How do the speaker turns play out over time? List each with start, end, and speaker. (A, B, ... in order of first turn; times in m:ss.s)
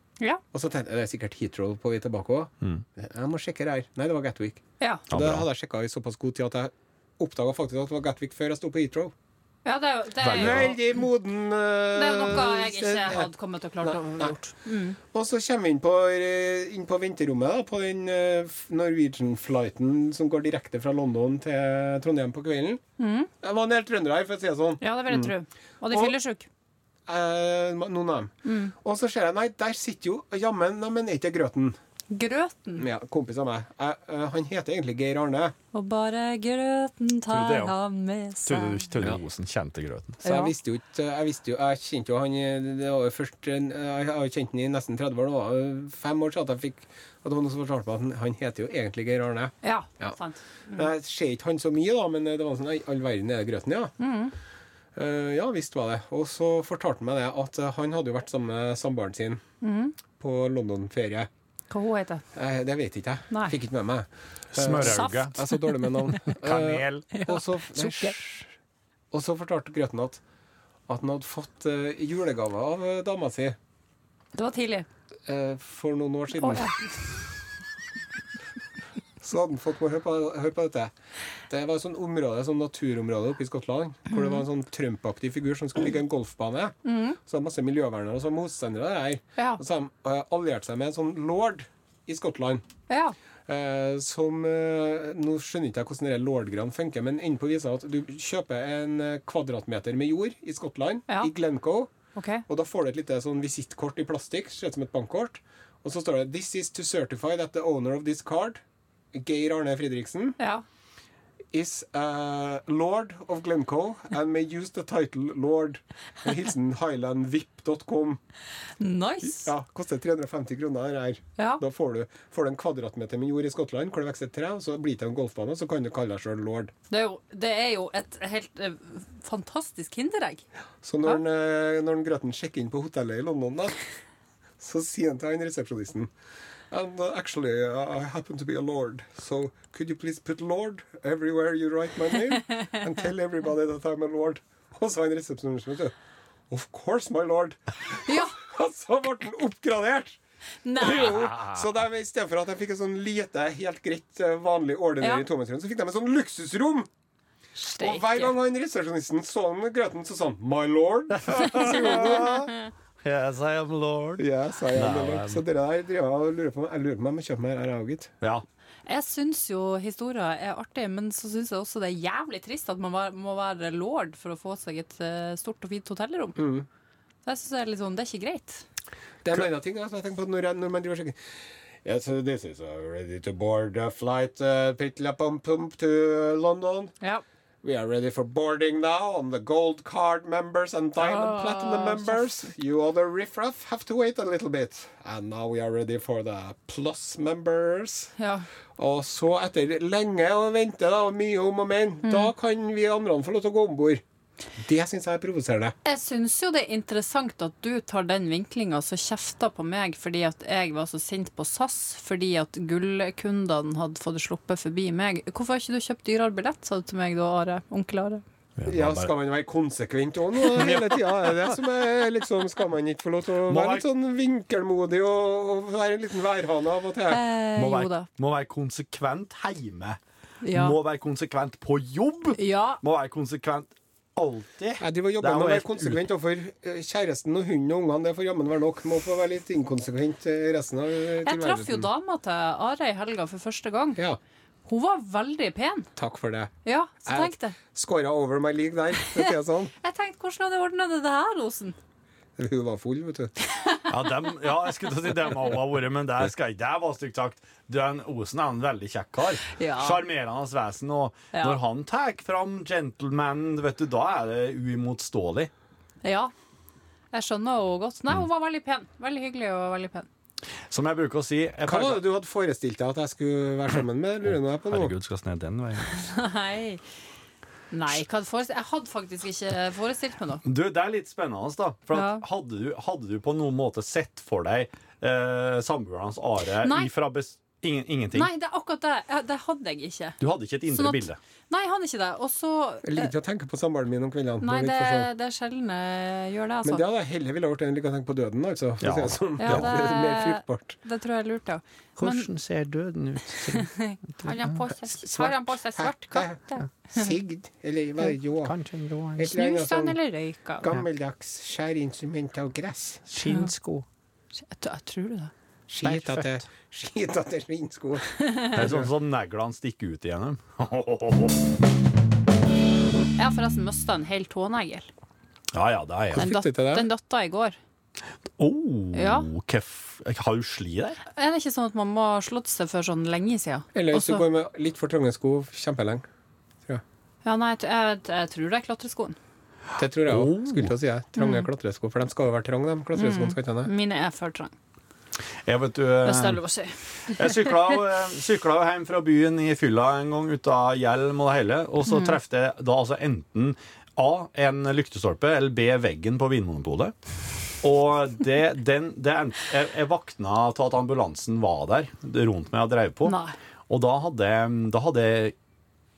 0:00.5-0:09.1 A
0:04.8-0:05.0 B
0:05.1-0:05.4 C
0:09.6-0:10.7 B
0:10.2-0:10.8 C
0:10.3-0:13.3 A
0:11.9-0:15.0 B
0:13.8-0:14.3 A
0:15.1-0:22.8 A
0:23.0-0:23.3 B
0:23.4-0:25.3 A
0:24.8-0:26.5 B
0:27.1-0:31.8 A
0:28.4-0:28.7 B
0:32.1-0:32.8 B
0:32.8-0:35.5 A
0:35.7-0:38.9 B
0:37.3-0:37.7 C
0:38.4-0:40.2 C
0:40.2-0:40.5 B
0:40.2-0:50.2 A
0:49.6-0:50.9 B
0:50.7-0:53.9 A
0:54.0-0:54.3 B
0:55.0-0:59.4 A
0:59.6-0:59.9 B
1:00.2-1:01.3 A
1:01.7-1:02.2 B
1:02.3-1:08.5 A
1:04.5-1:05.4 C
1:04.8-1:06.3 B
1:06.3-1:07.1 C
1:07.1-1:08.2 B
1:09.1-1:10.2 A
1:10.9-1:13.6 A
1:14.3-1:14.9 B
1:15.3-1:16.7 A
1:16.4-1:16.9 B
1:19.2-1:20.9 A
1:21.5-1:32.6 A
1:24.1-1:24.4 B
1:26.8-1:27.2 B
1:32.9-1:33.1 B
1:33.5-1:41.9 A
1:42.2-1:42.4 B
1:42.5-1:48.6 A
1:49.1-1:50.4 A
1:50.4-1:50.6 B
1:51.5-1:58.2 A
1:58.8-1:59.5 B
1:59.4-2:06.7 A
2:06.9-2:10.4 B
2:10.8-2:13.8 A
2:14.6-2:16.1 A
2:16.7-2:25.9 A
2:26.5-2:30.2 A
2:28.0-2:28.4 B
2:30.6-2:31.2 B
2:30.8-2:36.9 A
2:37.6-2:38.3 B
2:37.8-2:42.4 A
2:41.2-2:45.4 C
2:41.4-2:42.7 B
2:44.2-2:48.1 A
2:48.8-2:56.4 B
2:56.4-2:56.6 A
2:57.2-2:58.6 B
2:59.2-3:01.2 A
3:01.8-3:06.9 A
3:07.6-3:18.1 A
3:11.0-3:12.2 B
3:18.2-3:18.5 B
3:18.8-3:24.0 A
3:22.0-3:22.3 B
3:24.6-3:25.8 A
3:25.8-3:38.2 B
3:38.6-3:39.1 C
3:38.6-3:47.2 A
3:40.5-3:41.6 C
3:43.5-3:43.8 C
3:47.1-3:48.1 B
3:47.6-3:50.0 C
3:50.4-3:50.8 B
3:50.5-3:56.0 C
3:52.4-3:52.8 B
3:54.8-4:01.9 A
4:01.2-4:04.0 B
4:04.6-4:05.9 B
4:06.0-4:06.5 A
4:06.6-4:07.6 B
4:07.1-4:09.7 A
4:09.0-4:11.8 B
4:12.4-4:13.3 A
4:13.4-4:14.1 B
4:13.9-4:25.5 C
4:19.5-4:20.0 B
4:21.3-4:21.6 B
4:26.0-4:26.3 B
4:27.1-4:30.1 B
4:30.7-4:32.0 C
4:31.6-4:34.9 A
4:34.2-4:35.9 C
4:35.8-4:36.8 B
4:37.7-4:40.4 B
4:40.4-4:48.3 C
4:41.9-4:42.2 B
4:46.6-4:46.9 B
4:48.1-4:53.1 B
4:50.2-4:51.2 C
4:52.8-4:55.1 A
4:54.4-4:56.8 B
4:56.6-5:00.8 A
4:58.8-4:59.7 C
4:59.4-5:02.3 B
5:02.0-5:04.4 C
5:03.5-5:07.1 B
5:05.0-5:08.6 A
5:08.4-5:09.3 C
5:09.2-5:10.0 A
5:09.3-5:10.6 B
5:10.6-5:13.0 A
5:13.1-5:13.8 C
5:13.2-5:13.5 B
5:14.4-5:15.3 B
5:15.7-5:18.9 A
5:15.8-5:16.4 C
5:18.2-5:18.6 B
5:18.5-5:21.4 C
5:23.2-5:24.9 B
5:25.5-5:26.3 C
5:26.1-5:26.8 A
5:26.1-5:27.6 B
5:28.4-5:31.0 C
5:28.9-5:29.3 B
5:31.1-5:34.2 B
5:33.7-5:36.0 A
5:37.2-5:39.2 B
5:39.8-5:43.7 A
5:40.1-5:40.7 C
5:41.2-5:41.5 B
5:43.0-5:44.5 B
5:45.4-5:46.4 C
5:46.0-5:47.7 B
5:47.1-5:56.9 C
5:51.8-5:52.2 B
5:57.6-6:03.2 C
6:03.0-6:03.4 B
6:03.7-6:05.3 C